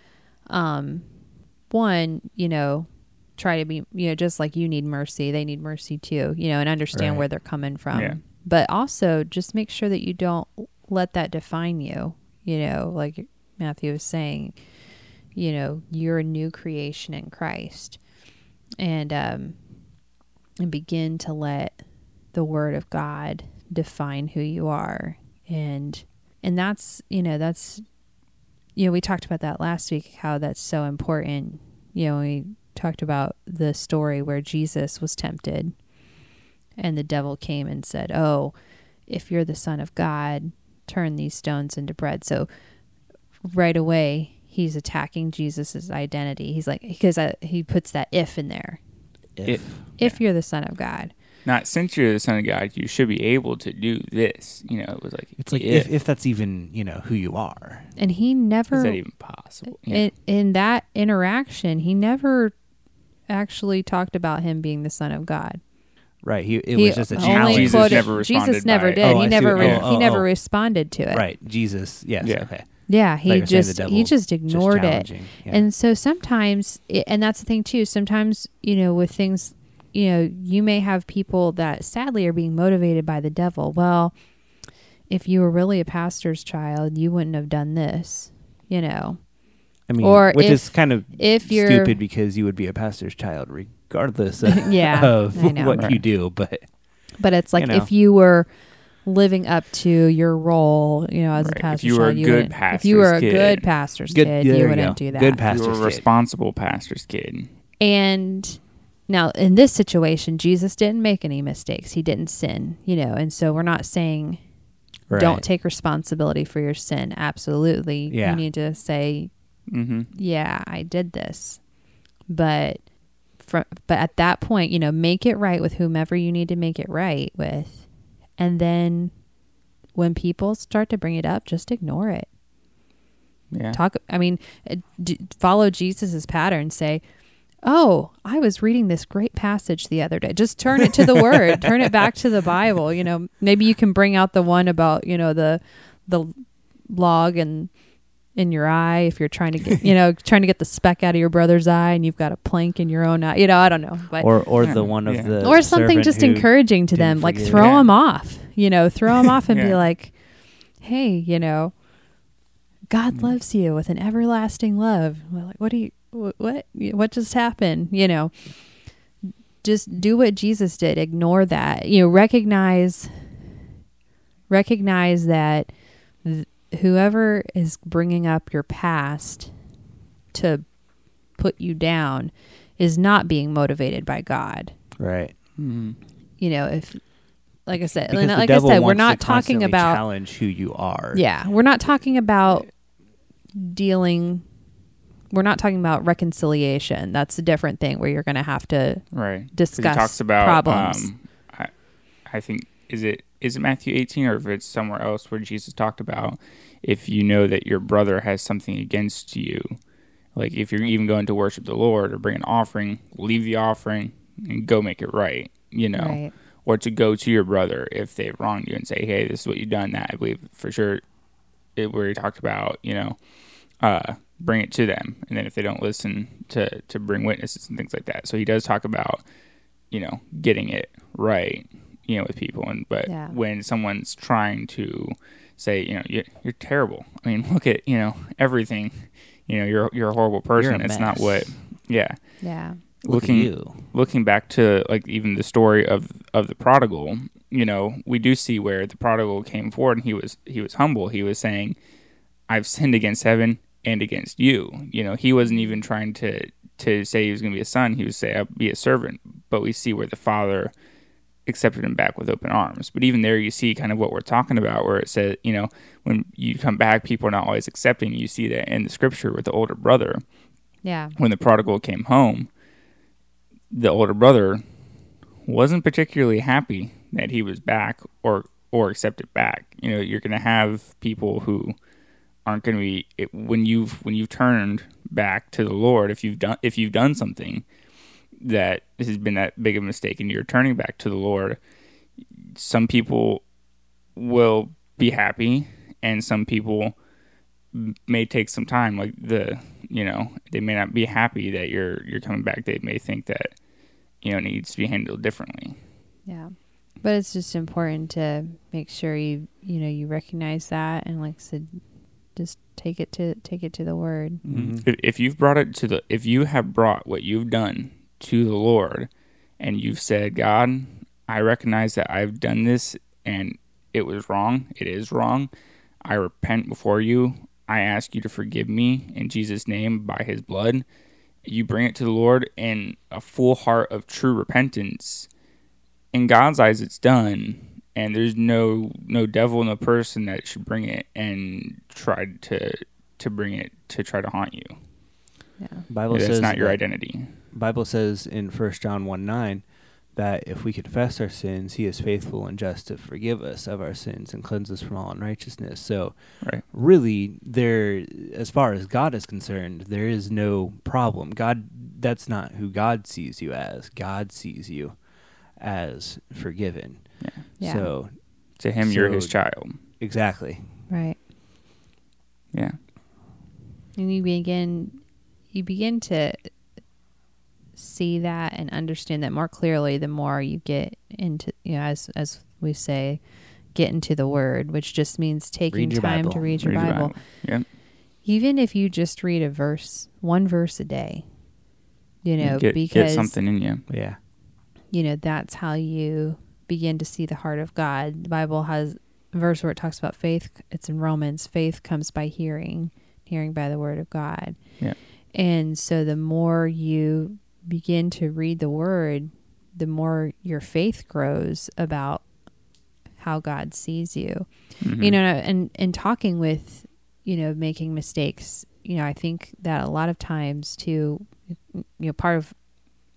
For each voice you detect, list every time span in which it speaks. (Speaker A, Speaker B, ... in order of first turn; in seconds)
Speaker A: 0.5-14.8, 15.3-18.0, 18.8-19.8, 20.6-27.8, 28.8-35.8, 36.8-38.5, 39.1-42.5, 43.4-48.8, 49.9-51.1, 58.0-59.0, 59.8-62.6, 63.3-65.6, 66.8-71.2, 72.9-92.0, 94.5-95.9, 97.2-105.5, 107.8-114.5, 115.1-119.3, 120.1-121.7, 122.3-129.2, 129.9-132.3, 133.7-137.0, 137.6-154.9, 155.4-161.9, 162.9-173.4, 174.5-179.6, 180.3-184.8, 186.4-190.0, 191.1-192.9, 193.6-194.5, 195.3-201.1, 215.9-216.3, 233.1-233.4, 242.4-242.8, 255.5-255.8, 270.8-271.1, 306.3-311.8, 312.3-314.4, 345.6-345.9, 367.6-367.9, 370.9-371.2, 374.0-376.5, 377.8-387.6, 388.2-391.3, 392.2-393.4, 394.9-404.8, 405.3-412.3, 413.1-422.6
Speaker B: 6.9-7.2, 49.4-50.0, 55.4-57.9, 66.2-68.1, 69.0-70.4, 71.1-75.7, 89.9-96.9, 97.6-97.9, 104.1-106.0, 115.1-115.4, 118.1-118.5, 154.2-157.8, 185.0-185.4, 187.8-191.3, 240.6-241.6, 243.1-243.8, 314.5-314.9, 345.9-346.9, 347.4-365.0, 365.5-368.2, 368.8-369.4, 370.0-370.8, 385.7-386.9, 393.9-394.2
Speaker C: 7.9-8.2, 49.5-50.2, 51.5-55.9, 58.7-60.1, 67.2-69.9, 72.2-72.5, 95.8-96.0, 101.4-103.7, 105.5-107.5, 119.7-120.1, 133.5-133.8, 154.6-155.4, 157.5-157.9, 159.5-159.8, 185.6-186.0, 199.1-209.8, 210.3-221.0, 221.8-223.2, 223.8-229.2, 229.9-242.2, 243.0-251.8, 252.5-260.7, 261.5-270.2, 271.2-272.5, 273.7-274.6, 275.4-281.8, 282.4-287.6, 288.4-291.6, 292.6-293.4, 294.2-297.0, 297.7-303.6, 304.2-305.8, 314.4-325.5, 326.1-330.9, 331.4-335.3, 336.1-344.8, 346.1-347.3, 367.2-367.5, 368.6-369.8, 372.5-372.8, 386.6-387.7, 392.4-393.8, 414.8-415.2